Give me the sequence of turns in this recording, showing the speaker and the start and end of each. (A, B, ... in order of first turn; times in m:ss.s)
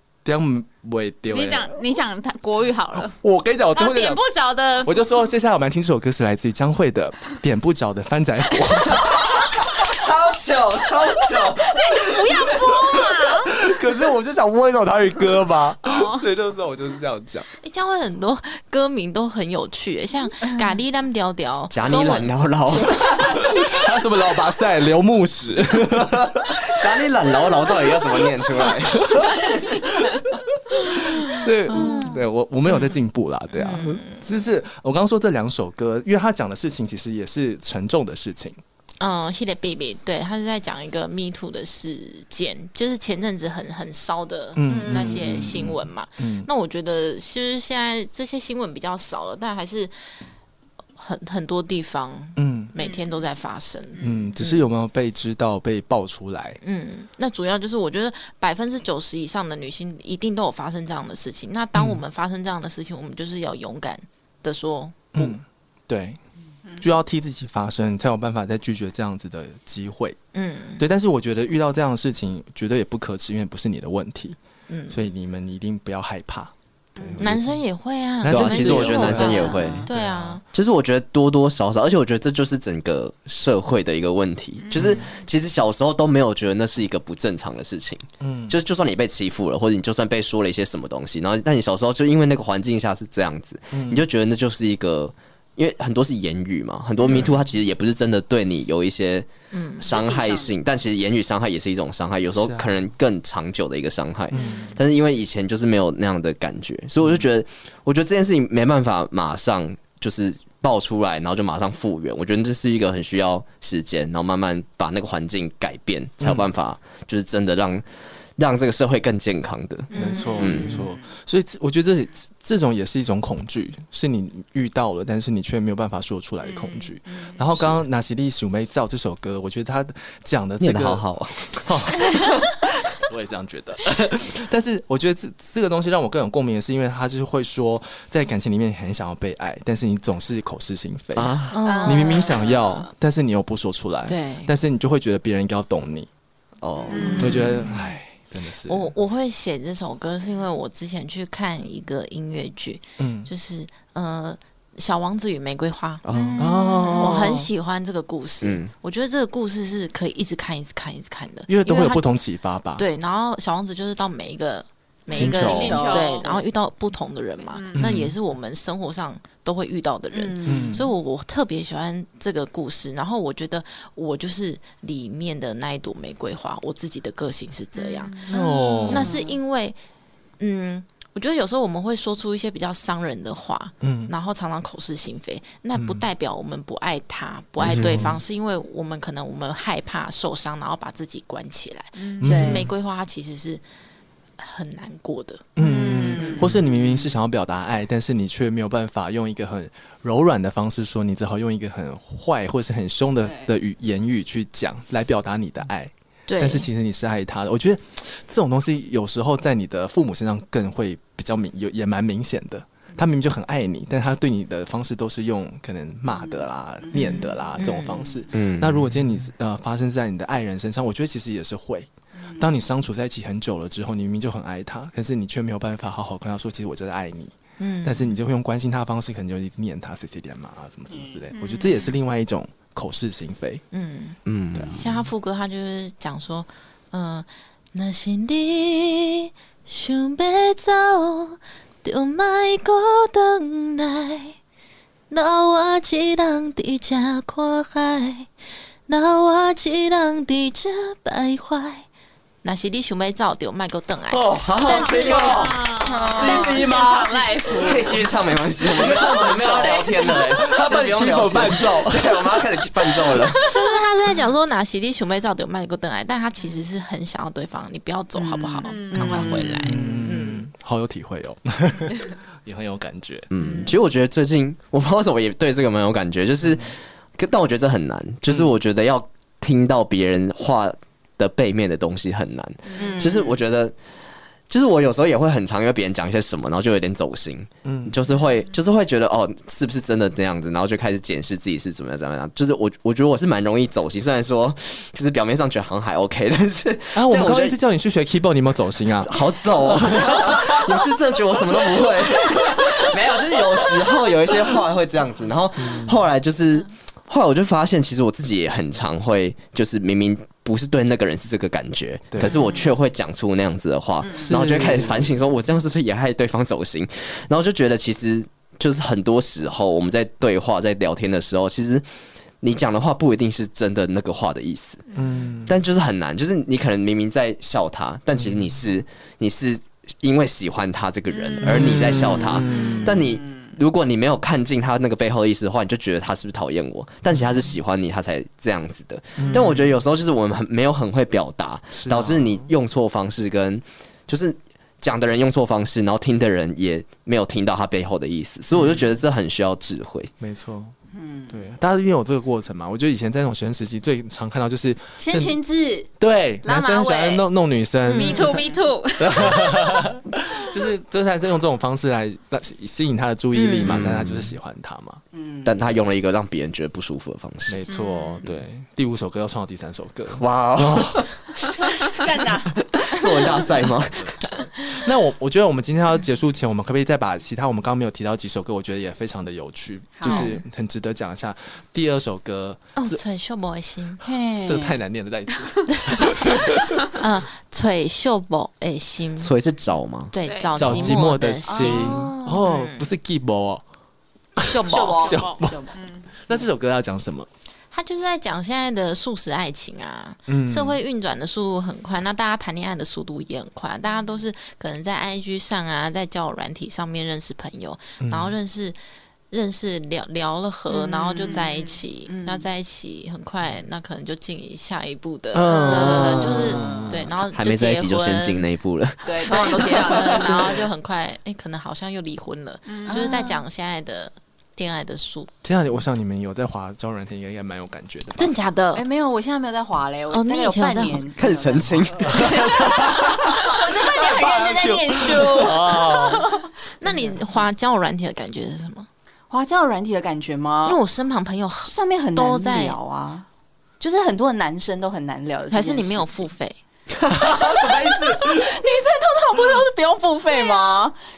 0:00.2-0:01.8 A
0:01.3-0:03.2 B
0:03.1-0:04.2 A
0:03.7-0:04.9 B
0:04.8-0:09.7 A
0:09.4-0:11.8 C
0:11.7-0:13.6 B
0:11.8-0:17.5 A
0:15.8-0:16.3 B
0:17.6-0:23.0 D
0:21.7-0:23.4 C
0:22.9-0:26.6 A
0:26.5-0:29.8 C
0:29.0-0:38.6 A
0:31.7-0:32.1 D
0:33.5-0:34.2 D
0:39.0-0:49.9 D
0:44.6-0:46.5 A
0:44.7-0:45.1 E
0:51.0-0:54.6 D
0:52.4-0:52.7 A
0:54.0-0:56.6 A
0:56.6-1:05.4 D
1:01.8-1:02.0 A
1:05.1-1:06.2 A
1:06.8-1:10.2 A
1:10.3-1:10.8 D
1:10.8-1:14.4 A
1:14.7-1:15.0 D
1:14.9-1:17.6 A
1:17.0-1:17.3 E
1:17.2-1:20.4 D
1:18.2-1:20.4 A
1:18.3-1:19.9 C
1:19.1-1:19.9 E
1:20.5-1:39.3 C
1:24.7-1:25.1 A
1:28.2-1:28.6 A
1:33.7-1:34.1 A
1:37.1-1:37.4 A
1:39.5-1:39.9 D
1:39.8-1:57.9 C
1:39.9-1:40.5 E
1:42.3-1:42.8 A
1:44.3-1:44.7 A
1:56.2-1:56.5 A
1:58.4-2:00.8 C
1:59.9-2:01.0 E
1:59.9-2:26.1 A
2:00.2-2:00.5 D
2:10.6-2:12.6 C
2:21.2-2:21.6 C
2:21.5-2:22.4 D
2:21.6-2:22.9 E
2:24.1-2:24.5 D
2:26.6-2:27.5 C
2:26.9-2:27.4 E
2:26.9-2:27.4 B
2:27.0-2:27.9 D
2:27.2-2:28.9 A
2:28.7-2:36.0 D
2:33.0-2:33.3 A
2:36.0-2:36.5 C
2:36.2-2:37.1 E
2:36.4-2:37.5 A
2:37.0-2:42.1 D
2:38.4-2:38.7 C
2:41.5-2:42.8 A
2:42.8-2:59.8 D
2:45.1-2:45.8 A
2:45.2-2:45.8 C
2:45.2-2:46.4 E
2:45.4-2:46.4 B
2:47.6-2:47.8 B
2:47.8-2:48.2 A
2:50.1-2:50.8 E
2:50.4-2:50.9 A
2:58.3-2:59.1 A
2:58.9-2:59.4 E
3:00.4-3:13.6 D
3:03.8-3:04.1 A
3:05.8-3:06.1 A
3:07.6-3:08.1 C
3:07.6-3:08.2 A
3:12.2-3:12.7 A
3:12.2-3:12.7 E
3:14.4-3:16.5 D
3:15.6-3:53.6 A
3:15.6-3:17.1 E
3:26.3-3:26.7 D
3:36.8-3:37.5 E
3:37.6-3:38.2 D
3:38.3-3:38.9 C
3:42.2-3:42.5 E
3:47.6-3:48.1 D
3:50.9-3:51.3 E
3:51.3-3:52.0 B
3:53.7-4:04.4 D
3:54.3-3:54.9 C
3:54.5-3:54.9 A
4:05.1-4:08.3 D
4:08.9-4:11.9 D
4:12.4-4:15.4 D
4:14.1-4:14.5 A
4:14.2-4:23.5 C
4:14.6-4:18.1 B
4:15.2-4:18.0 E
4:16.2-4:17.0 A
4:18.7-4:23.4 A
4:18.9-4:20.0 E
4:23.5-4:30.5 D
4:28.1-4:30.1 E
4:28.6-4:29.4 B
4:29.4-4:29.7 C
4:29.7-4:33.3 A
4:33.3-4:43.8 C
4:36.4-4:36.7 A
4:42.8-4:43.4 E
4:44.5-4:57.6 C
4:47.6-4:48.0 A
4:56.9-5:00.9 A
4:59.0-5:21.9 C
5:01.5-5:01.9 A
5:05.6-5:06.0 A
5:12.1-5:12.4 A
5:12.2-5:12.8 E
5:14.0-5:14.4 E
5:14.2-5:15.1 A
5:22.4-5:24.9 C
5:25.0-5:25.6 A
5:25.5-5:50.1 C
5:28.2-5:28.6 A
5:31.1-5:32.1 B
5:31.4-5:33.1 A
5:31.6-5:33.5 E
5:39.2-5:39.7 A
5:41.8-5:42.5 A
5:50.2-5:50.8 A
5:50.9-5:51.4 E
5:51.3-5:55.4 A
5:55.0-5:55.9 E
5:56.0-5:58.4 A
5:56.4-5:57.3 E
5:57.9-5:58.3 D
5:58.0-5:59.7 B
5:58.1-5:58.6 E
5:59.0-6:05.0 A
6:03.3-6:03.9 D
6:03.6-6:04.4 C
6:05.1-6:05.8 E
6:05.4-6:07.6 C
6:07.5-6:11.0 A
6:07.7-6:08.3 B
6:10.2-6:11.6 C
6:11.8-6:13.7 E
6:12.6-6:14.8 C
6:14.0-6:23.0 A
6:20.0-6:20.3 E
6:20.0-6:20.4 D
6:22.8-6:24.0 D
6:24.0-6:24.8 E
6:24.4-6:26.7 A
6:25.8-6:26.3 D
6:26.9-6:29.3 D
6:29.2-6:30.1 C
6:30.1-6:32.9 D
6:30.2-6:30.7 B
6:30.6-6:33.6 A
6:31.4-6:32.1 E
6:34.4-6:35.2 D
6:34.4-6:35.7 A
6:34.6-6:35.8 E
6:35.1-6:36.0 B
6:36.3-6:37.3 A
6:37.7-6:48.8 D
6:40.3-6:40.8 A
6:48.0-6:48.4 A
6:49.3-6:58.5 D
6:50.7-6:52.5 E
6:55.3-6:57.1 A
6:55.7-6:57.0 E
6:55.8-6:56.5 C
6:57.2-6:59.6 C
6:59.0-7:00.7 E
6:59.2-7:05.3 D
7:02.7-7:03.3 B
7:02.8-7:03.4 E
7:05.4-7:08.4 A
7:08.2-7:08.8 D
7:08.7-7:16.1 E
7:10.1-7:11.1 D
7:11.2-7:12.5 C
7:12.0-7:16.3 A
7:16.8-7:18.9 D
7:16.8-7:17.4 E
7:19.3-7:20.8 E
7:20.6-7:22.8 D
7:21.6-7:23.3 E
7:23.8-7:26.3 E
7:25.5-7:26.6 D
7:27.0-7:27.2 C
7:27.1-7:28.5 A
7:27.2-7:31.0 E